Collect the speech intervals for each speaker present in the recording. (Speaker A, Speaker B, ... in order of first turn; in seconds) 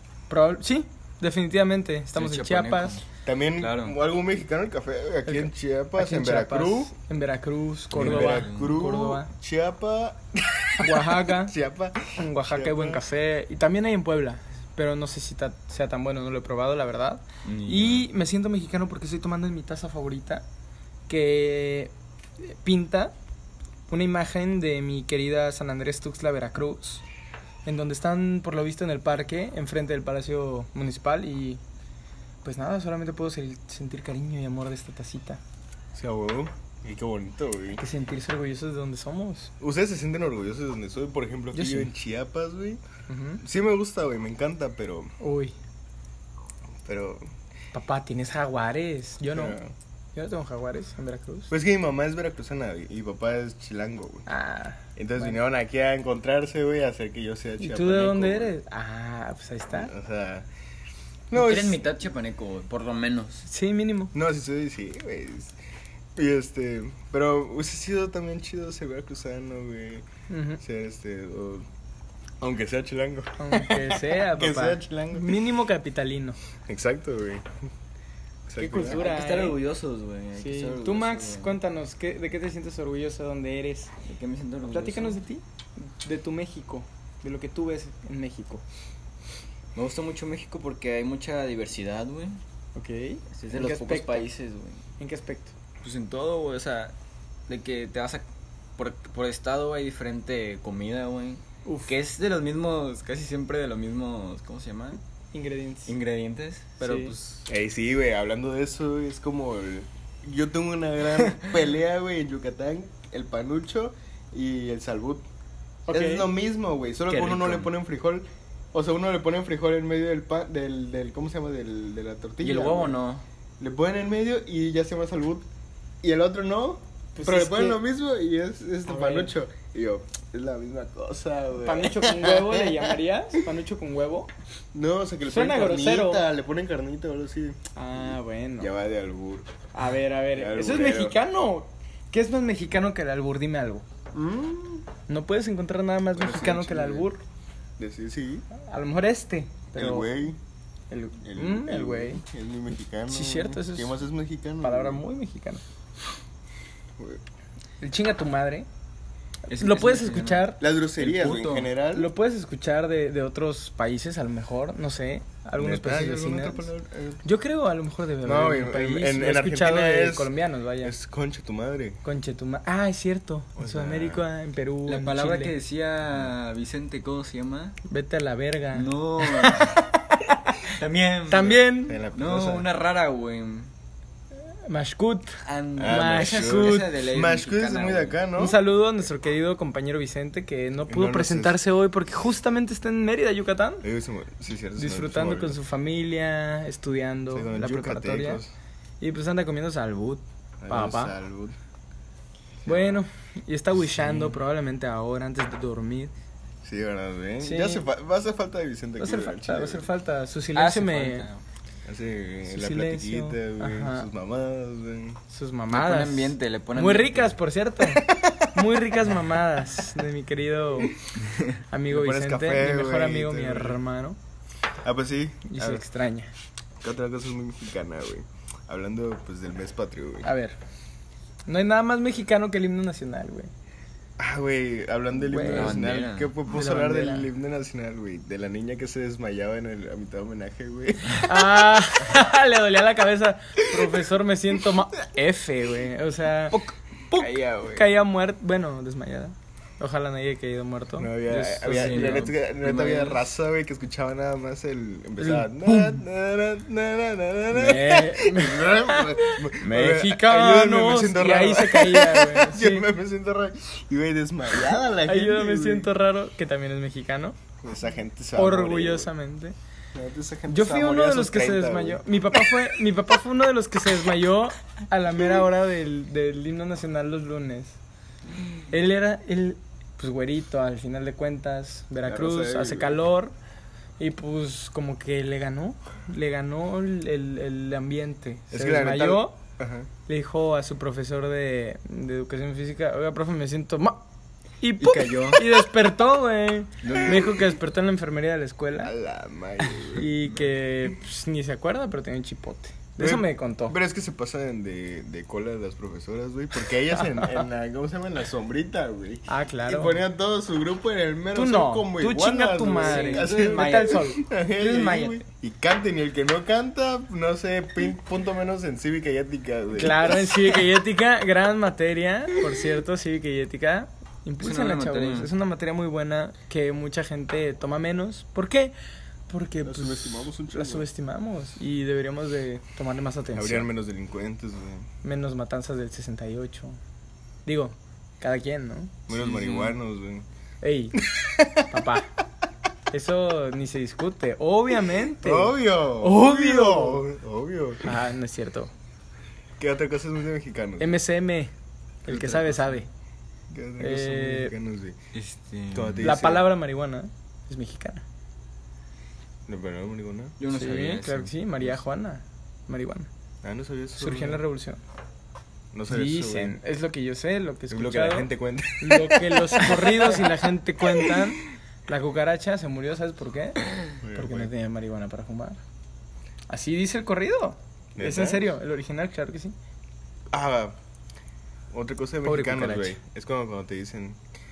Speaker A: 0.3-3.0, 5.2-9.3, 10.8-11.6, 12.2-20.4, 21.1-23.1, 23.9-27.0, 27.6-31.6, 32.4-35.4, 37.8-39.5, 41.5-41.9, 43.1-43.4, 45.2-45.5, 47.7-49.6, 50.1-51.5, 54.3-55.3, 57.6-59.9, 63.5-64.1, 70.3-70.6, 73.4-76.4, 78.6-79.6, 80.4-84.0, 84.7-88.6, 92.8-94.3, 95.0-95.6, 101.7-101.9, 105.3-106.0, 106.8-107.2, 115.9-116.3, 127.2-127.8, 128.9-129.3, 131.6-134.3, 135.3-136.2, 137.8-138.7, 139.7-143.8, 145.1-147.2, 148.5-150.1, 150.9-152.2, 153.1-154.0, 154.6-155.6, 157.8-158.7, 159.5-160.6, 161.9-166.7, 167.2-170.9, 172.0-175.5, 177.9-180.4, 181.3-182.0, 184.7-186.9, 188.4-193.8, 194.8-198.4, 199.0-201.2, 202.7-206.1, 207.4-207.9, 209.0-211.3, 212.5-214.1, 215.3-221.0, 221.7-224.2, 225.5-226.3, 230.2-230.6, 231.5-233.5, 235.3-235.8, 236.5-237.3, 241.2-252.3, 255.2-256.0, 257.5-262.9, 265.0-267.4, 268.4-269.6, 270.5-277.8, 278.7-283.3, 284.0-289.4, 290.1-294.0, 294.6-298.9, 299.9-303.8, 309.3-310.0, 311.3-315.2, 319.7-328.8, 329.3-333.7, 335.0-336.8, 337.5-339.0, 340.6-341.1, 341.6-342.1, 342.9-347.1, 347.8-348.7, 350.8-351.5, 352.1-352.9, 353.8-354.5, 356.0-358.0, 360.5-363.1, 364.0-364.8, 365.9-375.6, 376.5-379.6, 382.2-383.0
Speaker B: 2.1-3.0, 3.6-4.0, 8.0-8.8, 17.4-18.1, 61.3-63.5, 78.8-81.6, 84.0-85.2, 89.8-92.4, 93.3-94.8, 95.8-96.9, 97.5-98.2, 98.8-105.0, 105.9-107.5, 117.1-117.7, 122.4-123.2, 159.5-161.7, 174.9-177.8, 178.7-179.8, 180.7-183.7, 185.4-188.2, 210.5-211.4, 215.7-217.4, 235.4-236.3, 246.5-247.9, 251.7-253.2, 294.8-295.4, 296.8-297.3, 312.8-314.1, 324.4-325.3, 339.1-339.8, 355.1-356.1, 360.4-361.3
Speaker C: 3.2-6.9, 8.0-13.0, 35.9-37.8, 39.6-42.8, 43.4-45.1, 46.8-47.2, 49.3-49.7, 51.5-54.3, 55.0-58.5, 59.7-60.5, 61.3-61.8, 64.1-65.6, 66.2-70.0, 70.6-71.7, 72.4-75.4, 76.7-77.5, 78.5-79.0, 107.5-115.3, 115.9-123.0, 123.6-125.5, 126.0-132.9, 134.7-139.5, 140.3-141.2, 144.1-144.9, 146.1-147.1, 147.8-148.5, 149.8-150.4, 151.2-155.0, 160.6-162.1, 165.6-167.2, 168.2-172.0, 173.6-174.2, 181.9-182.7, 185.8-188.6, 190.9-191.6, 193.8-195.6, 197.3-198.5, 200.6-201.6, 202.7-203.0, 206.6-209.9, 211.9-215.2, 217.9-218.5, 221.9-223.8, 224.8-225.9, 226.8-230.3, 234.2-241.8, 243.7-244.1, 251.0-265.9, 267.6-269.1, 269.9-272.6, 282.1-283.0, 288.5-289.9, 296.9-297.3, 298.8-300.1, 303.0-320.6, 329.6-330.9, 333.4-334.9, 339.1-340.3, 341.0-341.9, 345.2-348.0, 349.6-350.9, 352.1-352.6, 353.5-355.0, 355.7-356.5, 359.5-360.4, 363.4-364.4, 365.7-366.6, 367.7-371.3, 374.0-374.5, 378.0-378.5, 380.3-380.8, 381.7-384.2